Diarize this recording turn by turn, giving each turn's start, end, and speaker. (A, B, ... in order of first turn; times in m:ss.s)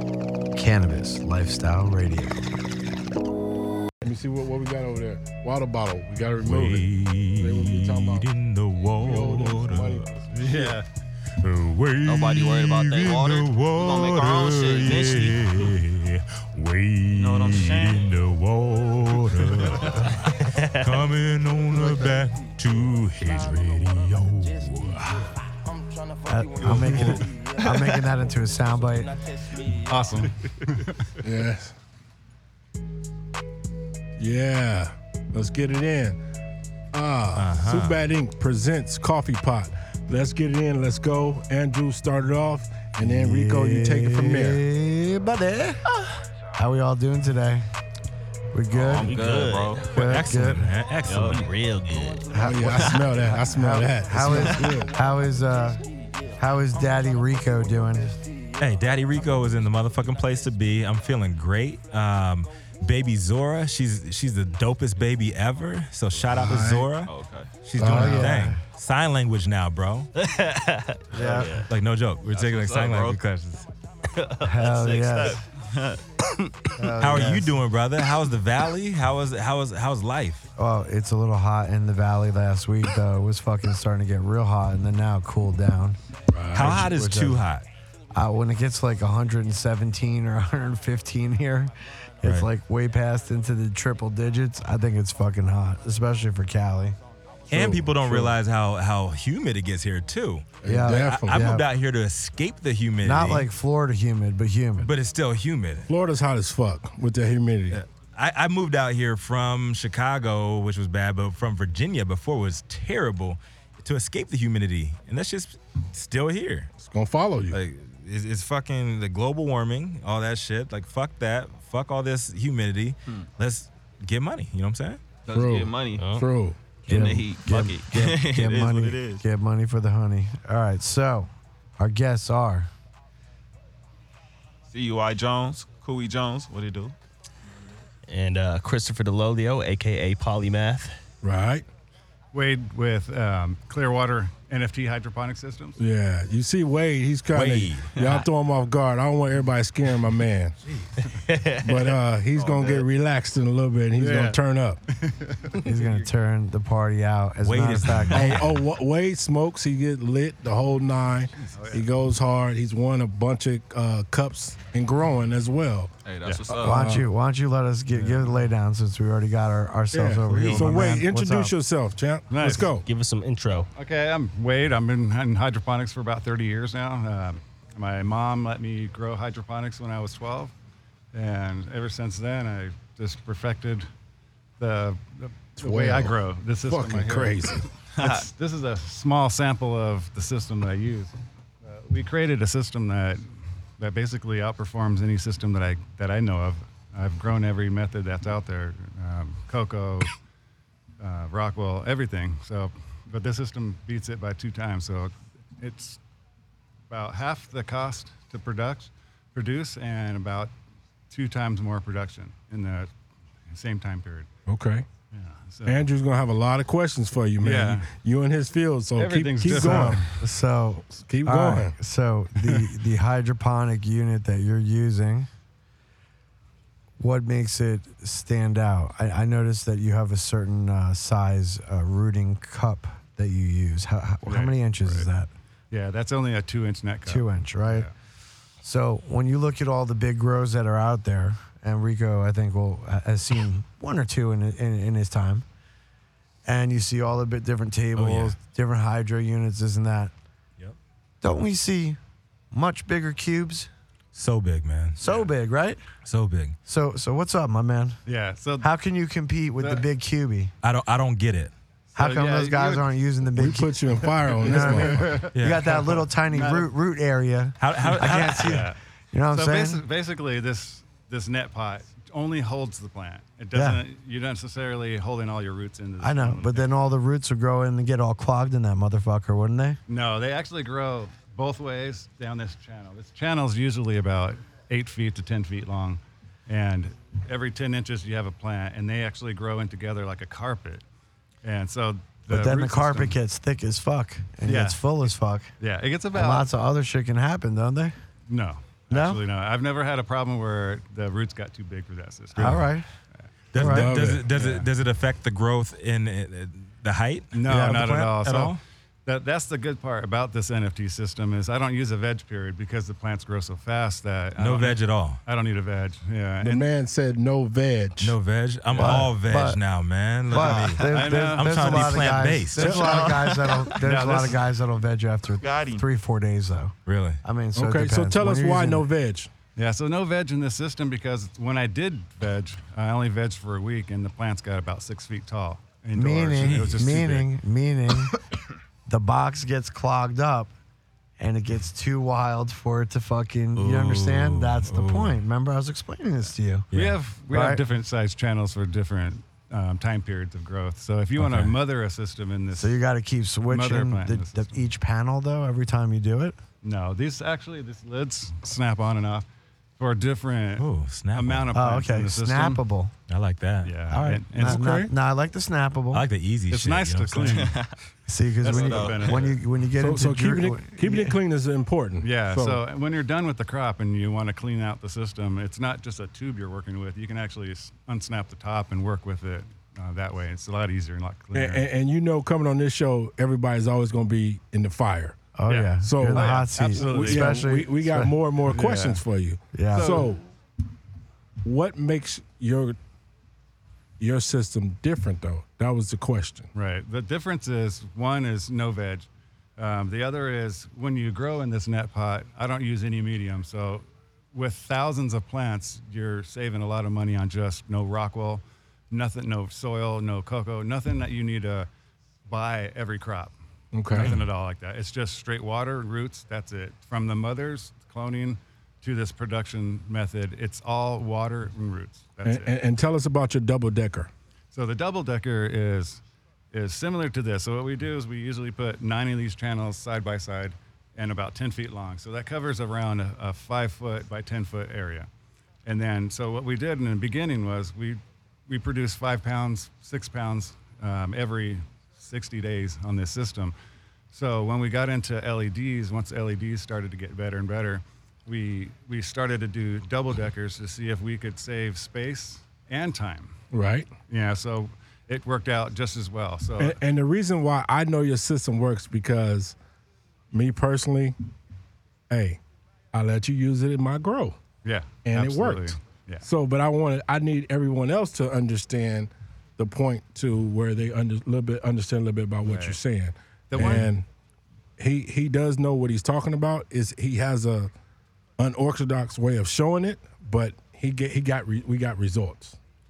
0:00.5-0:02.5 A
0:04.0-0:08.3 B
0:06.4-0:10.7 C
0:08.9-0:10.3 B
0:10.4-0:10.9 D
0:11.4-0:25.3 C
0:12.0-0:15.8 E
0:17.2-0:18.1 E
0:19.6-0:20.0 E
0:20.4-0:20.9 F
0:26.2-0:29.2 A
0:26.6-0:27.3 C
0:29.8-0:31.2 D
0:31.2-0:31.7 B
0:34.2-0:36.2 B
0:36.9-0:44.6 B
0:37.4-0:38.0 C
0:43.0-0:45.8 A
0:46.6-0:47.6 A
0:48.5-0:49.1 A
0:48.7-0:49.9 E
0:49.0-0:49.8 F
0:49.9-0:50.7 A
0:50.0-0:51.5 C
0:51.0-0:52.2 F
0:52.3-0:55.8 A
0:52.4-0:54.9 B
0:56.4-0:58.2 A
0:58.6-1:07.1 C
1:06.3-1:07.0 B
1:07.1-1:07.5 E
1:07.6-1:10.1 C
1:07.8-1:08.6 A
1:07.8-1:08.5 B
1:10.2-1:11.6 F
1:11.1-1:11.6 A
1:11.2-1:11.6 E
1:11.7-1:13.7 C
1:12.2-1:13.2 E
1:14.2-1:14.4 F
1:14.4-1:15.4 A
1:14.5-1:16.0 E
1:16.8-1:17.5 A
1:17.0-1:20.4 C
1:20.6-1:26.0 A
1:26.3-1:26.9 B
1:26.5-1:27.7 C
1:26.6-1:27.4 A
1:28.2-1:37.0 A
1:32.2-1:32.5 C
1:37.5-1:43.5 C
1:37.5-1:38.4 A
1:40.6-1:41.6 B
1:40.6-1:41.7 A
1:43.0-1:44.9 A
1:44.8-1:45.9 C
1:45.9-1:47.8 B
1:47.7-1:56.7 C
1:56.8-1:57.6 B
1:57.5-2:05.0 C
2:05.3-2:06.2 E
2:05.3-2:06.6 B
2:06.8-2:09.2 E
2:06.9-2:12.7 A
2:14.7-2:17.0 E
2:18.1-2:21.0 F
2:21.2-2:21.6 B
2:22.3-2:25.8 D
2:25.8-2:30.6 B
2:27.3-2:28.0 C
2:28.0-2:28.2 E
2:30.7-2:31.0 C
2:31.3-2:31.9 F
2:31.6-2:34.8 B
2:34.0-2:34.4 D
2:34.9-2:36.0 D
2:35.6-2:38.4 A
2:37.4-2:38.6 C
2:38.1-2:45.9 B
2:41.5-2:41.9 D
2:46.0-2:46.8 E
2:46.2-2:46.6 D
2:46.5-2:51.5 A
2:46.6-2:47.1 B
2:47.9-2:48.4 D
2:49.9-2:52.8 B
2:50.3-2:51.0 C
2:52.3-2:52.7 D
2:52.8-2:53.7 F
2:53.8-3:00.5 D
3:01.1-3:03.9 D
3:04.6-3:13.3 D
3:05.6-3:07.7 B
3:08.0-3:08.3 E
3:13.8-3:20.2 D
3:21.0-3:26.0 D
3:26.9-3:30.5 D
3:31.1-3:32.9 D
3:33.5-3:34.3 D
3:34.5-3:34.9 B
3:35.1-3:35.9 D
3:35.7-3:40.2 B
3:37.4-3:37.9 D
3:39.0-3:40.2 D
3:39.5-3:45.3 A
3:41.0-3:41.8 B
3:42.4-3:42.7 D
3:47.0-3:55.3 A
3:54.3-3:55.1 D
3:55.7-3:57.9 D
3:57.1-3:57.9 A
3:58.6-4:05.4 A
4:06.5-4:10.1 A
4:08.0-4:08.4 C
4:11.2-4:12.0 A
4:12.5-4:13.7 A
4:14.2-4:15.0 C
4:15.0-4:15.8 A
4:15.0-4:15.3 D
4:16.0-4:16.6 C
4:16.7-4:18.0 A
4:18.1-4:18.7 D
4:18.6-4:20.5 A
4:19.6-4:19.8 D
4:20.6-4:21.5 C
4:21.9-4:22.9 D
4:22.0-4:23.8 A
4:23.3-4:25.2 B
4:23.9-4:26.7 D
4:24.4-4:29.8 A
4:25.3-4:25.8 C
4:27.6-4:28.7 C
4:27.8-4:28.8 D
4:29.3-4:36.7 D
4:33.5-4:33.8 A
4:36.0-4:39.8 A
4:39.9-4:50.8 D
4:51.4-4:53.2 D
4:52.3-4:55.5 A
4:54.4-4:54.8 D
4:55.6-4:56.5 D
4:56.1-4:57.9 A
4:58.3-5:02.7 D
4:58.9-4:59.2 A
5:02.4-5:02.9 A
5:02.4-5:02.6 C
5:03.5-5:08.6 C
5:03.6-5:04.0 A
5:03.6-5:04.3 B
5:04.3-5:04.7 D
5:07.3-5:16.7 D
5:07.5-5:08.2 A
5:14.4-5:15.2 C
5:16.4-5:18.2 B
5:18.0-5:23.0 C
5:18.7-5:19.1 D
5:18.8-5:19.6 A
5:20.3-5:28.9 A
5:20.3-5:23.1 D
5:22.6-5:23.2 B
5:22.8-5:23.8 E
5:23.8-5:24.4 D
5:25.4-5:25.8 E
5:26.9-5:27.2 C
5:27.6-5:29.3 B
5:29.6-5:37.3 D
5:35.9-5:38.2 A
5:36.4-5:37.0 C
5:38.9-5:40.5 A
5:41.2-5:46.7 A
5:43.6-5:45.2 C
5:46.2-5:52.8 D
5:46.7-5:47.0 C
5:47.3-5:47.6 A
5:51.2-5:51.6 C
5:52.5-5:56.4 A
5:53.5-5:54.6 D
5:56.6-5:59.3 D
5:59.8-6:02.6 D
6:00.6-6:01.6 C
6:01.5-6:02.9 A
6:03.1-6:03.8 C
6:03.6-6:04.9 D
6:03.9-6:06.1 A
6:04.4-6:04.9 B
6:05.9-6:07.6 C
6:06.5-6:07.6 D
6:07.2-6:07.8 E
6:08.1-6:11.2 A
6:08.4-6:09.4 D
6:08.4-6:09.3 E
6:09.8-6:12.6 B
6:12.0-6:21.6 D
6:21.3-6:25.3 B
6:25.4-6:28.1 A
6:25.5-6:27.5 D
6:25.8-6:30.2 B
6:28.5-6:29.0 D
6:29.5-6:30.1 A
6:29.7-6:30.2 D
6:31.4-6:32.8 B
6:34.0-6:36.5 B
6:36.5-6:51.7 D
6:52.3-6:53.3 D
6:53.7-6:54.2 B
6:53.9-7:02.6 D
6:54.0-6:54.3 C
7:02.2-7:04.1 B
7:04.5-7:06.0 D
7:06.5-7:15.1 D
7:15.6-7:23.6 D
7:24.1-7:33.4 D
7:33.5-7:33.9 B
7:34.1-7:36.8 D
7:36.6-7:39.6 B
7:40.3-7:41.2 B
7:42.1-7:42.4 B
7:42.9-7:44.4 B
7:44.6-7:46.2 D
7:45.0-7:54.0 B
7:52.4-7:52.8 D
7:53.5-7:53.9 D
7:54.8-7:57.7 B
7:58.4-8:02.6 B